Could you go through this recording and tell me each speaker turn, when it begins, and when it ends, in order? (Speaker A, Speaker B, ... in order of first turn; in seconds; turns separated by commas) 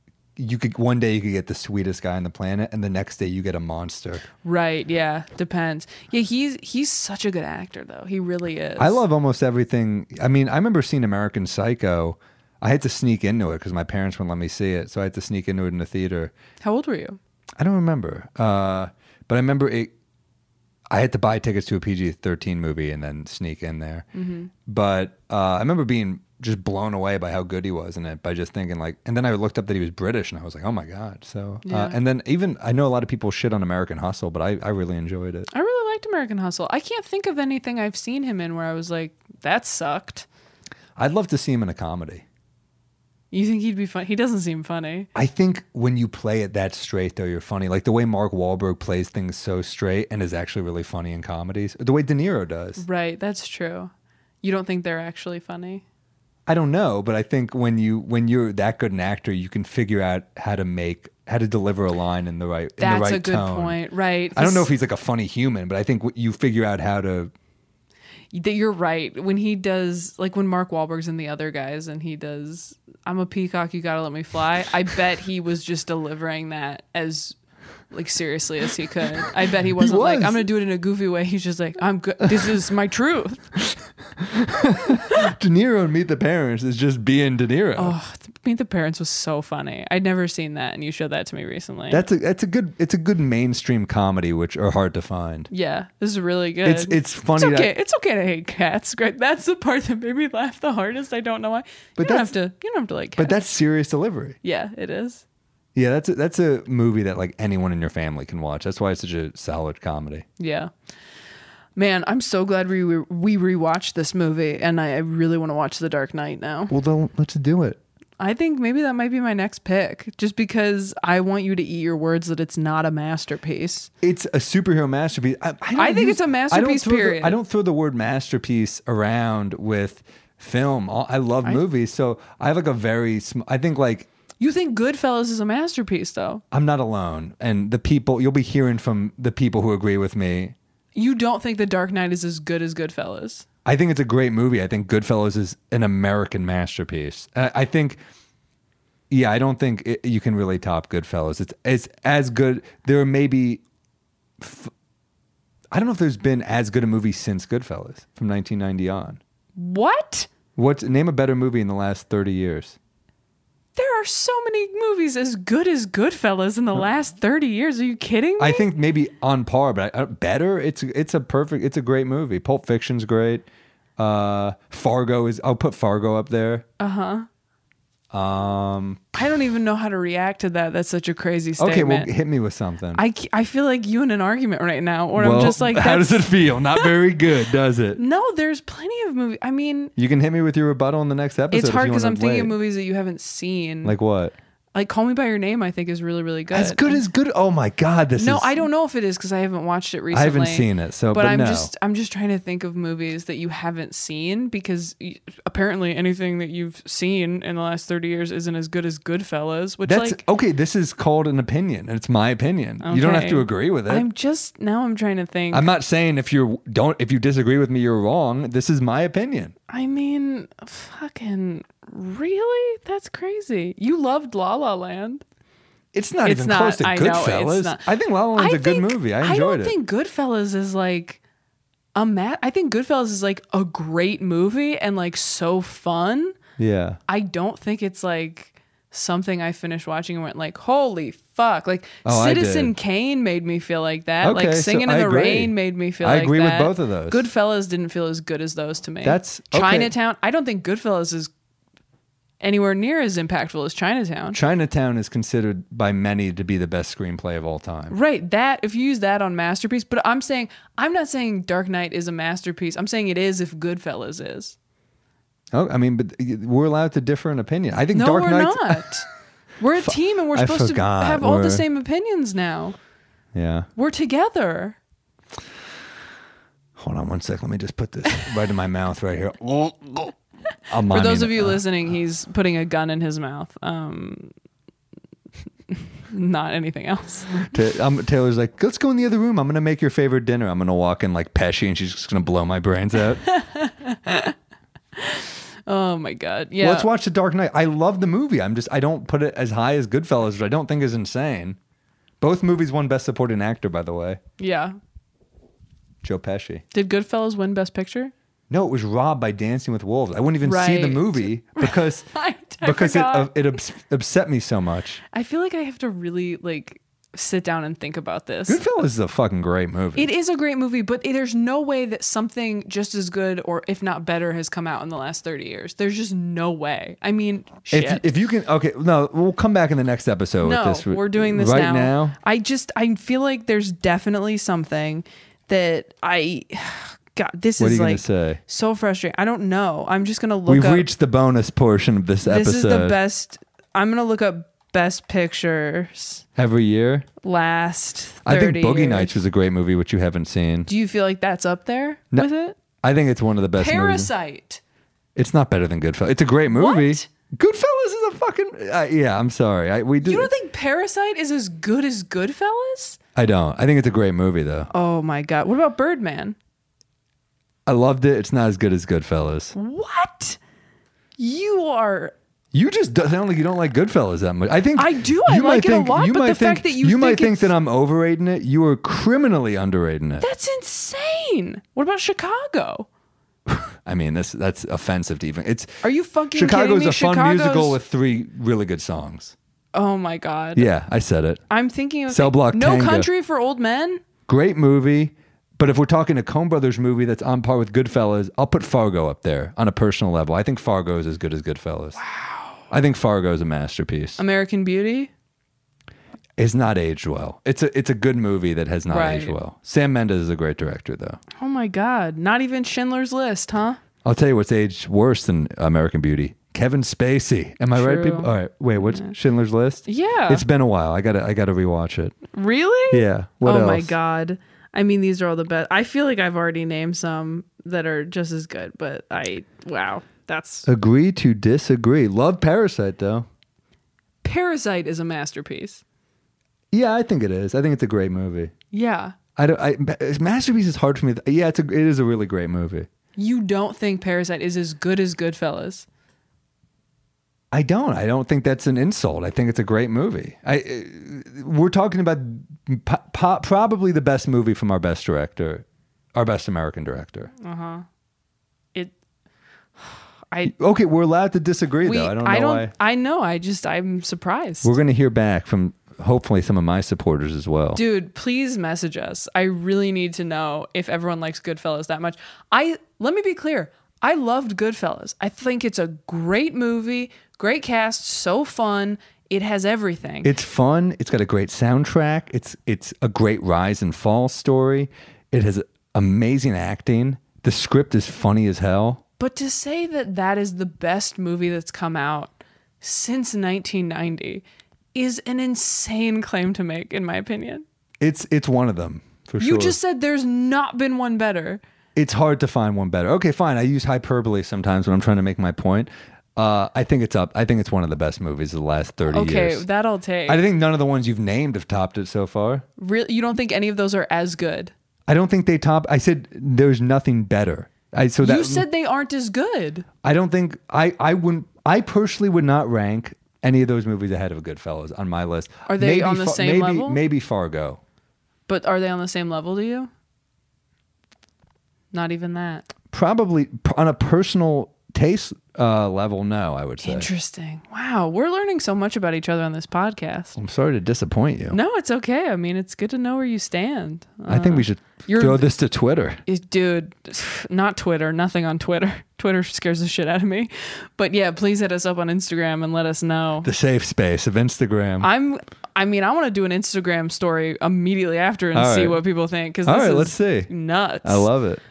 Speaker A: 0.3-4.2, Speaker B: 4.4-9.0, Speaker A: 8.8-16.3, Speaker B: 16.6-17.2, Speaker A: 17.6-19.9, Speaker A: 20.9-24.1, Speaker B: 24.1-24.5, Speaker A: 24.6-35.5, Speaker B: 31.6-32.0, Speaker B: 35.5-40.2, Speaker A: 41.0-42.2, Speaker B: 43.3-45.1, Speaker A: 45.1-52.8, Speaker B: 52.8-53.9, Speaker B: 54.4-55.8, Speaker A: 56.5-63.8, Speaker B: 62.8-64.7, Speaker A: 64.3-67.3, Speaker B: 68.3-77.3, Speaker B: 77.9-83.4, Speaker A: 79.7-80.5, Speaker A: 83.6-88.0, Speaker B: 87.8-92.0, Speaker A: 91.9-95.5, Speaker B: 95.5-103.4, Speaker A: 96.6-97.7, Speaker A: 102.0-102.3, Speaker A: 103.2-104.4, Speaker B: 104.4-105.2, Speaker A: 105.7-110.2, Speaker B: 110.4-110.7, Speaker B: 111.8-116.7, Speaker A: 116.7-117.8, Speaker B: 118.2-123.9, Speaker A: 124.0-134.1, Speaker B: 125.8-127.4, Speaker B: 134.4-136.4, Speaker A: 136.5-140.5, Speaker B: 140.9-143.4, Speaker A: 143.6-148.0, Speaker A: 149.1-153.6, Speaker A: 154.4-154.7, Speaker A: 155.7-159.2, Speaker B: 159.6-160.3, Speaker A: 160.5-162.8, Speaker B: 163.8-168.7, Speaker A: 168.4-173.4, Speaker A: 174.0-176.7, Speaker B: 176.8-177.3, Speaker A: 178.1-179.0, Speaker B: 179.1-182.1, Speaker A: 181.6-183.0, Speaker B: 182.9-186.9, Speaker A: 185.2-188.0, Speaker B: 187.9-189.9, Speaker A: 189.9-192.5, Speaker B: 191.5-193.9, Speaker A: 193.8-194.3, Speaker B: 194.7-197.0, Speaker A: 196.5-198.7, Speaker B: 198.2-210.2, Speaker A: 200.1-201.7, Speaker A: 209.8-214.1, Speaker B: 212.8-215.7, Speaker A: 215.5-219.5, Speaker B: 219.7-225.2, Speaker A: 225.9-229.7, Speaker B: 226.2-227.8, Speaker B: 228.3-231.2, Speaker B: 231.9-236.3, Speaker A: 236.6-237.0, Speaker B: 237.1-251.3, Speaker A: 242.0-242.7, Speaker A: 244.2-247.2, Speaker A: 249.0-249.9, Speaker B: 252.4-254.4, Speaker A: 254.3-257.9, Speaker B: 257.9-264.5, Speaker A: 265.5-268.9, Speaker B: 267.9-269.1, Speaker B: 269.6-272.8, Speaker A: 269.8-271.6, Speaker A: 273.3-273.7, Speaker B: 273.8-274.8, Speaker A: 276.8-280.1, Speaker A: 280.7-281.6, Speaker B: 280.8-284.3, Speaker B: 285.7-287.4, Speaker A: 287.4-293.2, Speaker B: 293.2-294.3, Speaker B: 294.9-296.9, Speaker A: 296.6-301.6, Speaker A: 302.2-304.2, Speaker B: 304.4-304.8, Speaker A: 306.0-306.6, Speaker B: 306.7-308.1, Speaker A: 308.5-312.1, Speaker B: 310.4-313.3, Speaker A: 312.6-315.0, Speaker B: 315.1-318.6, Speaker A: 318.5-320.1, Speaker B: 319.9-328.1, Speaker A: 327.7-332.1, Speaker B: 330.4-340.9, Speaker A: 337.6-338.4, Speaker A: 340.5-343.0, Speaker B: 342.2-346.2, Speaker A: 346.4-347.1, Speaker B: 347.2-349.2, Speaker A: 348.2-350.7, Speaker B: 350.7-352.6, Speaker A: 352.8-354.1, Speaker B: 353.5-354.6, Speaker A: 355.1-360.3, Speaker B: 356.5-357.1, Speaker B: 360.0-363.0, Speaker A: 363.1-364.7, Speaker B: 364.7-366.4, Speaker A: 367.6-369.5, Speaker B: 369.5-370.4, Speaker B: 371.2-372.1, Speaker A: 372.5-380.3, Speaker B: 374.8-377.5, Speaker B: 380.2-382.9, Speaker A: 383.5-385.8, Speaker B: 385.8-387.8, Speaker A: 386.3-389.3, Speaker B: 389.7-390.7, Speaker A: 390.5-391.4, Speaker B: 391.5-394.0, Speaker A: 392.1-393.1, Speaker A: 394.3-402.0, Speaker B: 402.0-402.7, Speaker A: 402.7-404.2, Speaker B: 404.2-405.1, Speaker A: 406.4-411.2, Speaker B: 408.9-409.3, Speaker B: 411.4-413.8, Speaker A: 414.0-422.1, Speaker B: 417.7-419.1, Speaker B: 419.9-420.4, Speaker B: 422.3-430.7, Speaker A: 422.9-423.9, Speaker A: 430.6-433.3, Speaker B: 434.2-435.8, Speaker A: 436.7-438.5, Speaker B: 438.7-439.1, Speaker A: 439.4-442.9, Speaker B: 443.2-445.9, Speaker A: 447.5-457.3, Speaker B: 457.4-457.8, Speaker A: 460.4-462.7, Speaker B: 461.8-464.7, Speaker A: 464.6-467.8, Speaker B: 467.7-480.3, Speaker A: 480.2-489.0, Speaker B: 489.2-494.4, Speaker B: 494.9-497.6, Speaker A: 498.0-499.8, Speaker B: 499.4-501.6, Speaker A: 501.9-509.6, Speaker B: 509.1-510.4, Speaker A: 510.2-512.6, Speaker B: 512.8-514.7, Speaker A: 515.1-518.6, Speaker B: 518.2-519.9, Speaker A: 520.0-527.8, Speaker B: 525.7-527.0, Speaker B: 528.5-529.9, Speaker B: 531.9-532.7, Speaker A: 532.9-537.1, Speaker B: 536.8-540.4, Speaker A: 540.4-541.6, Speaker B: 541.5-545.5, Speaker A: 544.3-546.2, Speaker B: 546.3-553.5, Speaker A: 553.4-555.1, Speaker B: 555.0-561.3, Speaker A: 558.5-559.0, Speaker A: 559.6-560.5, Speaker A: 561.0-561.6